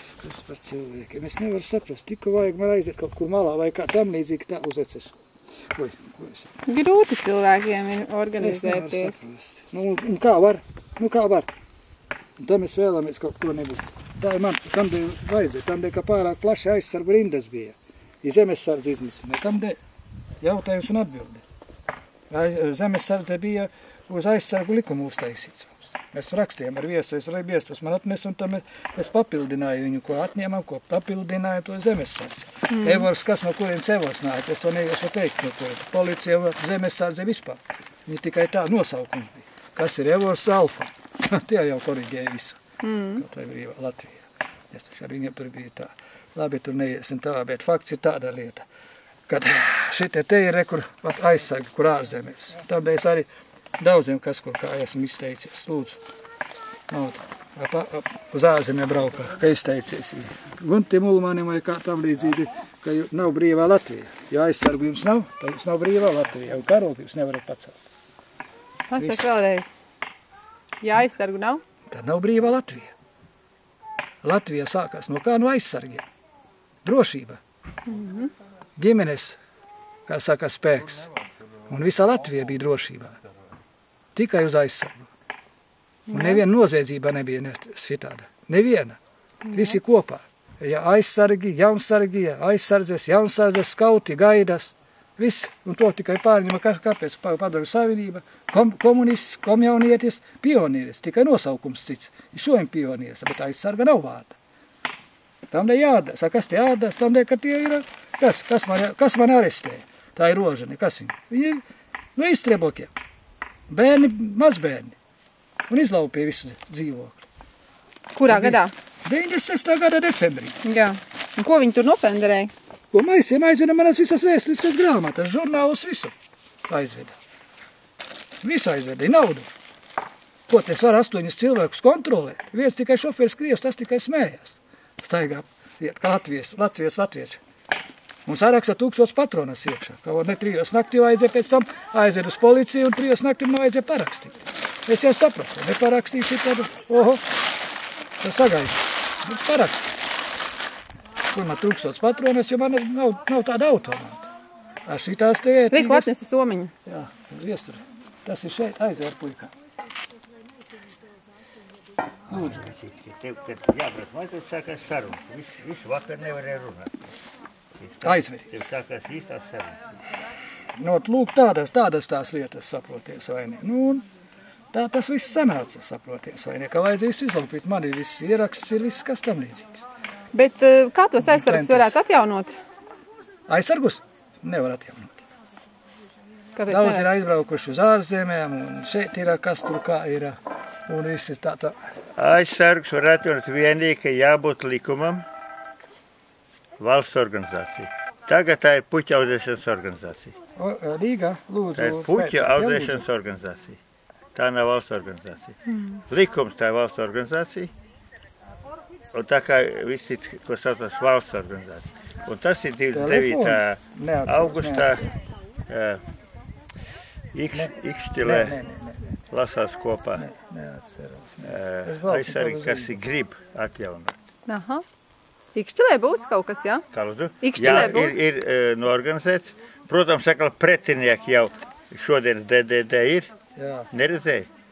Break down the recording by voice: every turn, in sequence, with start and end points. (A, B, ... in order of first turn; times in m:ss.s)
0:00.2-0:05.2 A
0:05.7-0:06.5 A
0:06.6-0:09.1 B
0:08.4-0:11.5 A
0:12.4-0:19.8 A
0:20.4-0:21.4 A
0:22.3-0:42.6 A
0:32.7-0:33.0 B
0:42.8-0:43.2 B
0:43.1-0:48.6 A
0:49.3-0:53.3 A
0:53.8-0:56.0 A
0:56.9-1:07.8 A
1:08.9-1:09.7 B
1:09.0-1:09.3 A
1:10.8-1:11.6 B
1:11.9-1:12.9 A
1:14.2-1:16.1 A
1:16.8-1:17.4 A
1:17.8-1:18.3 B
1:18.8-1:19.4 A
1:20.1-1:21.1 A
1:21.7-1:23.2 A
1:24.1-1:25.1 A
1:26.1-1:26.4 B
1:26.1-1:29.0 A
1:29.5-1:29.7 B
1:29.5-1:44.4 A
1:45.5-1:51.6 A
1:52.2-1:52.9 A
1:53.7-1:55.0 A
1:55.7-1:57.2 A
1:58.2-1:58.7 B
1:58.3-2:00.6 A
2:00.6-2:02.5 B
2:02.9-2:06.1 A
2:06.7-2:07.1 A
2:08.4-2:09.5 A
2:10.5-2:17.4 A
2:18.2-2:27.2 A
2:28.2-2:29.9 A
2:31.3-2:34.3 A
2:34.8-2:36.1 A
2:35.7-2:36.7 B
2:36.8-2:39.5 A
2:42.3-2:47.1 C
2:47.8-2:49.8 C
2:48.0-2:48.6 A
2:50.8-2:54.0 A
2:54.7-2:59.8 A
3:00.3-3:02.6 B
3:01.2-3:02.0 A
3:03.5-3:05.2 A
3:06.6-3:07.0 B
3:06.7-3:10.4 A
3:10.9-3:11.8 A
3:12.2-3:15.2 C
3:16.8-3:20.3 C
3:20.6-3:23.0 A
3:21.8-3:23.8 C
3:24.3-3:25.6 C
3:25.7-3:26.0 B
3:26.1-3:27.7 C
3:29.1-3:35.1 C
3:32.9-3:35.1 A
3:35.7-3:36.0 C
3:37.3-3:38.6 C
3:37.5-3:39.2 A
3:39.3-3:40.2 C
3:40.2-3:43.0 A
3:41.4-3:44.2 C
3:44.5-3:44.8 B
3:45.5-3:46.8 B
3:46.9-3:53.3 C
3:47.4-3:48.2 B
3:53.6-3:53.9 A
3:53.9-3:54.5 C